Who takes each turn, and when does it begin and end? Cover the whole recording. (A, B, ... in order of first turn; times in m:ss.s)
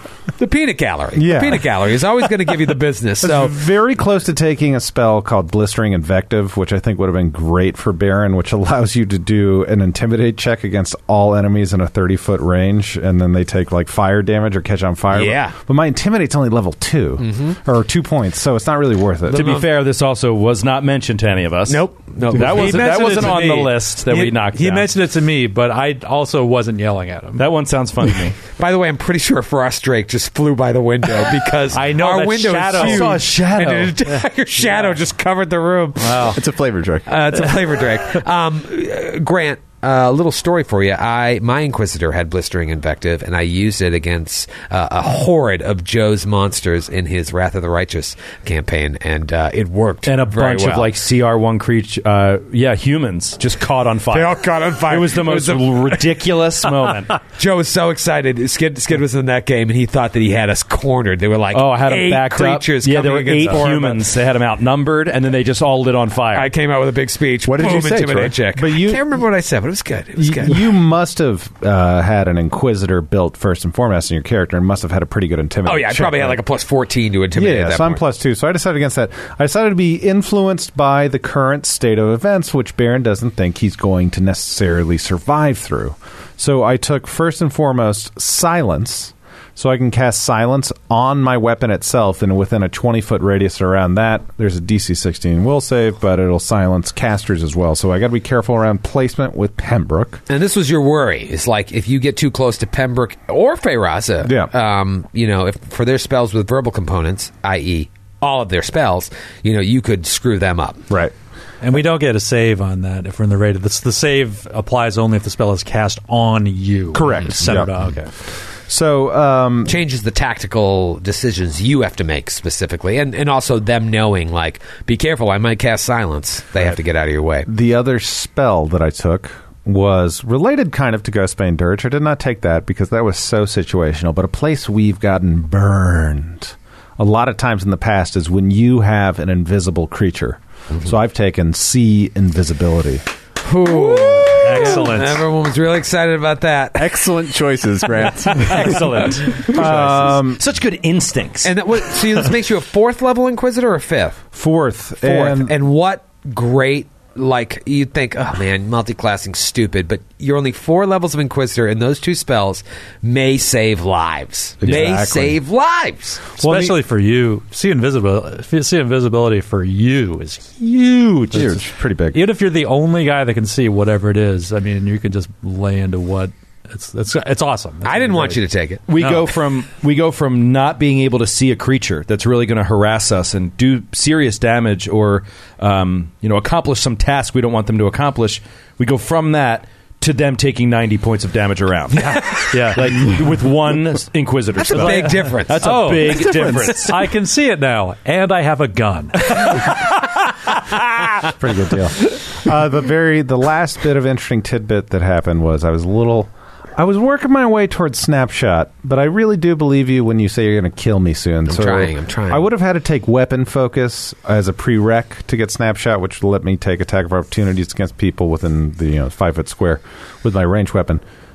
0:00.4-0:03.6 A
0:01.2-0:01.7 B
0:03.2-0:19.5 B
0:15.1-0:15.6 A
0:17.2-0:17.6 A
0:19.3-0:19.7 A
0:19.3-0:24.9 C
0:21.7-0:23.4 A
0:22.4-0:27.4 D
0:27.4-0:28.4 C
0:28.6-0:36.4 A
0:31.7-0:33.4 D
0:32.8-0:34.0 C
0:34.1-0:34.6 D
0:36.0-0:36.4 D
0:36.2-0:37.1 E
0:37.1-0:50.9 A
0:50.1-0:57.2 C
0:54.1-0:56.2 A
0:57.2-1:04.0 A
1:01.5-1:06.5 C
1:06.3-1:10.7 A
1:07.4-1:08.4 E
1:08.6-1:09.0 B
1:10.2-1:16.4 B
1:15.6-1:18.0 A
1:17.4-1:40.2 B
1:40.3-1:50.8 A
1:44.2-1:44.5 B
1:51.6-1:58.1 D
1:56.9-1:57.7 B
1:58.7-1:59.8 B
1:59.7-2:07.5 A
2:07.5-2:23.0 B
2:23.4-2:27.1 A
2:24.2-2:25.2 D
2:26.8-2:29.6 E
2:28.3-2:31.6 C
2:29.5-2:30.4 B
2:31.4-2:34.2 A
2:34.3-2:35.6 B
2:35.0-2:46.2 A
2:44.6-2:45.4 B
2:46.4-2:46.8 B
2:46.4-2:51.6 D
2:51.3-2:52.2 B
2:51.3-2:51.7 E
2:52.1-2:58.4 D
2:57.8-2:58.8 A
2:58.9-3:17.0 C
2:59.0-2:59.3 D
3:12.0-3:13.2 D
3:14.6-3:15.6 A
3:14.8-3:19.7 D
3:16.1-3:16.8 E
3:21.4-3:41.0 B
3:31.5-3:32.5 A